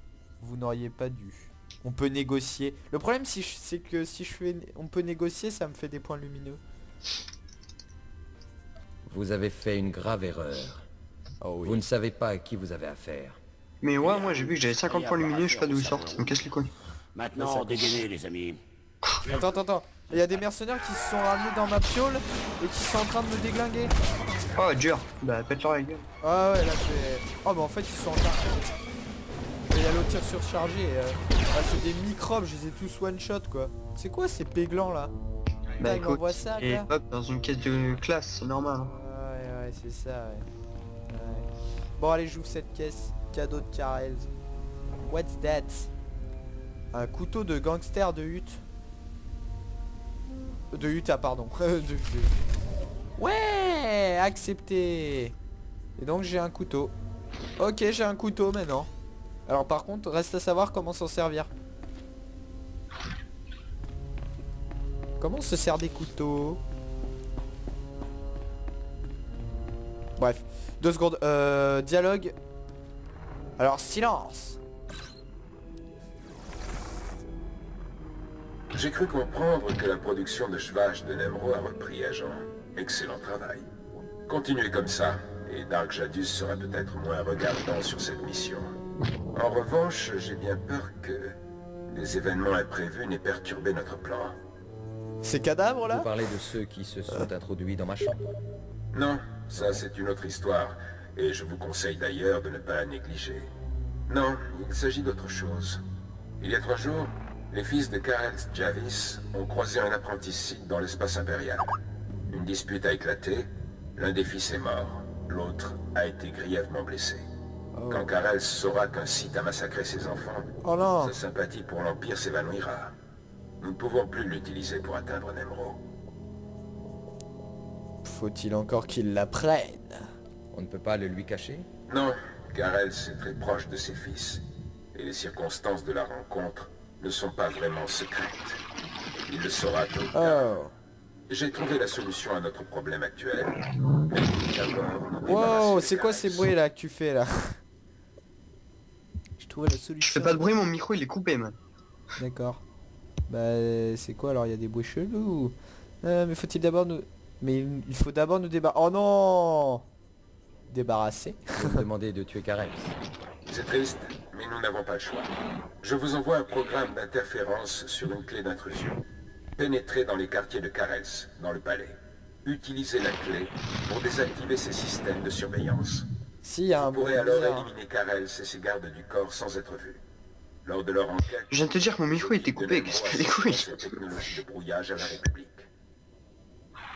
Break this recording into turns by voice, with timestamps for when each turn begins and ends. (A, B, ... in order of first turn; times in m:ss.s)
0:00.4-0:06.6 A
0:09.1-0:10.9 B
0:11.4-0:11.8 A
0:11.6-0:13.4 B
0:13.8-0:16.7 C
0:14.0-0:16.4 D
0:17.2-0:18.6 D
0:17.5-0:18.0 A
0:19.2-0:23.9 A
0:24.6-0:26.0 C
0:26.2-0:28.6 A
0:29.6-0:35.1 A
0:35.8-0:38.9 C
0:35.8-0:36.9 A
0:38.9-0:40.4 A
0:41.1-0:41.4 A
0:42.0-0:44.3 A
0:45.0-0:45.9 A
0:46.9-0:48.6 A
0:50.7-0:52.4 A
0:53.2-0:55.3 A
0:56.0-0:56.9 A
0:57.6-0:58.9 A
0:59.5-1:01.5 A
1:05.2-1:06.6 A
1:10.2-1:12.3 A
1:13.6-1:14.6 A
1:18.7-1:23.7 E
1:24.3-1:28.7 E
1:29.3-1:31.4 E
1:31.9-1:34.4 E
1:35.2-1:36.1 A
1:35.9-1:38.2 B
1:38.9-1:43.5 E
1:39.5-1:39.8 B
1:44.1-1:45.8 E
1:46.4-1:51.8 E
1:52.3-1:57.2 E
1:57.7-1:58.1 A
1:57.9-2:00.5 E
2:00.6-2:01.2 A
2:01.0-2:02.9 E
2:03.6-2:05.8 E
2:08.0-2:10.1 A
2:10.5-2:11.7 B
2:11.9-2:14.4 E
2:14.9-2:18.6 E
2:19.3-2:20.4 E
2:20.1-2:20.7 A
2:21.3-2:26.5 E
2:25.2-2:27.6 A
2:29.4-2:30.4 A
2:30.0-2:31.6 C
2:32.2-2:32.6 A
2:33.3-2:39.8 A
2:40.7-2:41.8 A
2:41.5-2:42.9 B
2:43.5-2:45.3 E
2:45.8-2:49.0 E
2:49.6-2:56.0 E
2:56.4-2:57.7 A
2:56.8-3:00.0 E
3:00.6-3:05.6 E
3:01.5-3:03.7 C